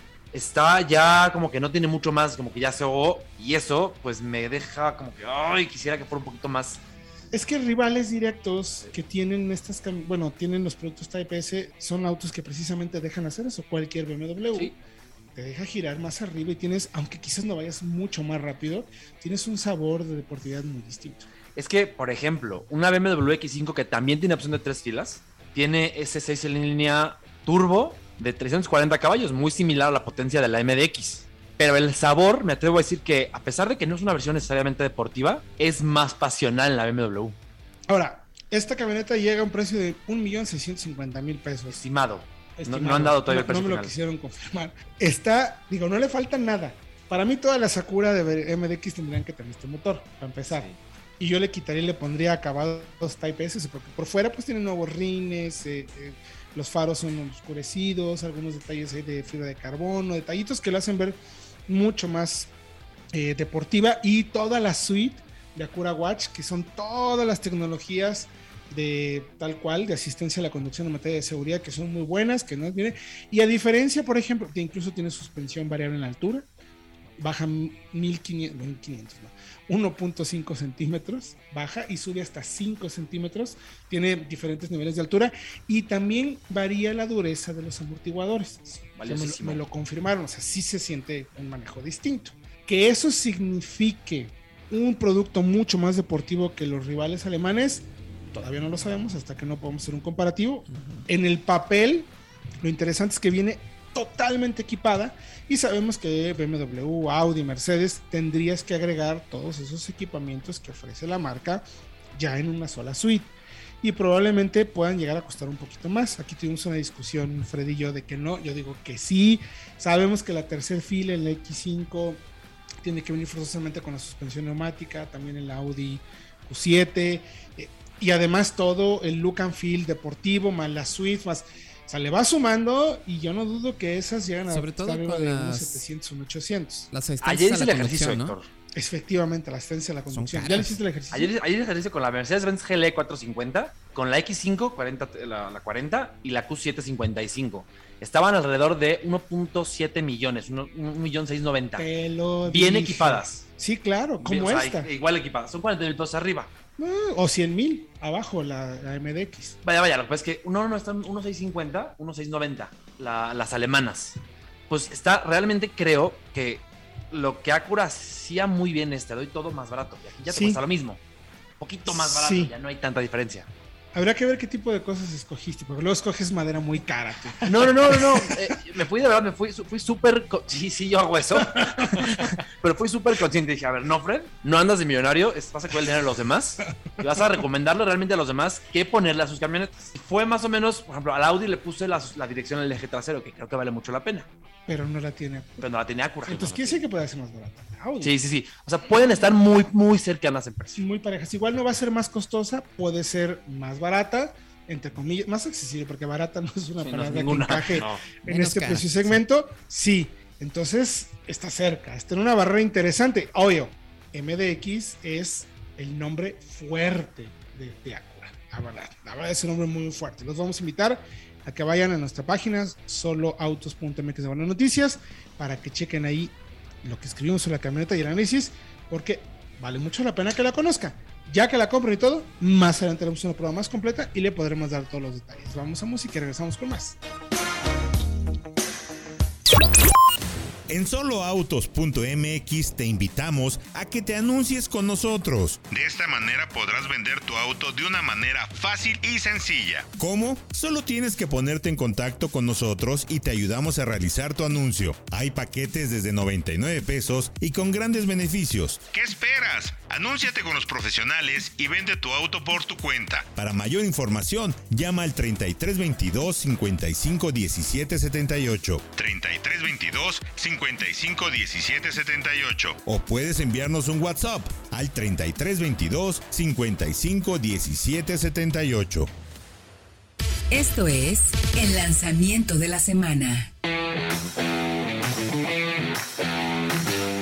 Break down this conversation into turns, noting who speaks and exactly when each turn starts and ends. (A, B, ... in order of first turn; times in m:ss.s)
0:00.3-0:06.8 A
0:07.3-0:14.8 B
0:15.4-0:21.3 B
0:21.6-0:37.4 A
0:37.9-0:41.8 B
0:41.7-0:43.9 A
0:42.6-1:02.5 B
0:50.5-0:50.8 A
1:03.1-1:16.5 B
1:17.2-1:42.1 B
1:29.0-1:29.6 A
1:42.6-1:51.6 B
1:52.2-2:02.2 B
2:02.8-2:16.9 B
2:14.5-2:15.8 C
2:16.9-2:18.4 C
2:17.2-2:18.5 A
2:18.8-2:21.3 B
2:20.1-2:20.8 C
2:21.1-2:31.9 A
2:31.8-2:34.9 B
2:32.5-2:33.4 A
2:34.2-2:36.5 A
2:36.8-2:39.6 B
2:39.6-2:44.2 A
2:44.7-2:51.0 A
2:50.3-2:50.6 B
2:51.6-2:53.5 A
2:51.9-2:52.5 B
2:53.9-2:58.4 B
2:57.4-3:14.3 A
3:01.4-3:02.3 B
3:14.7-3:15.6 B
3:15.6-3:16.8 A
3:16.2-3:18.1 B
3:18.0-3:20.8 A
3:18.9-3:19.3 B
3:20.8-3:57.0 B
3:26.8-3:27.9 A
3:28.3-3:29.2 C
4:00.7-4:39.1 D
4:40.5-4:43.5 E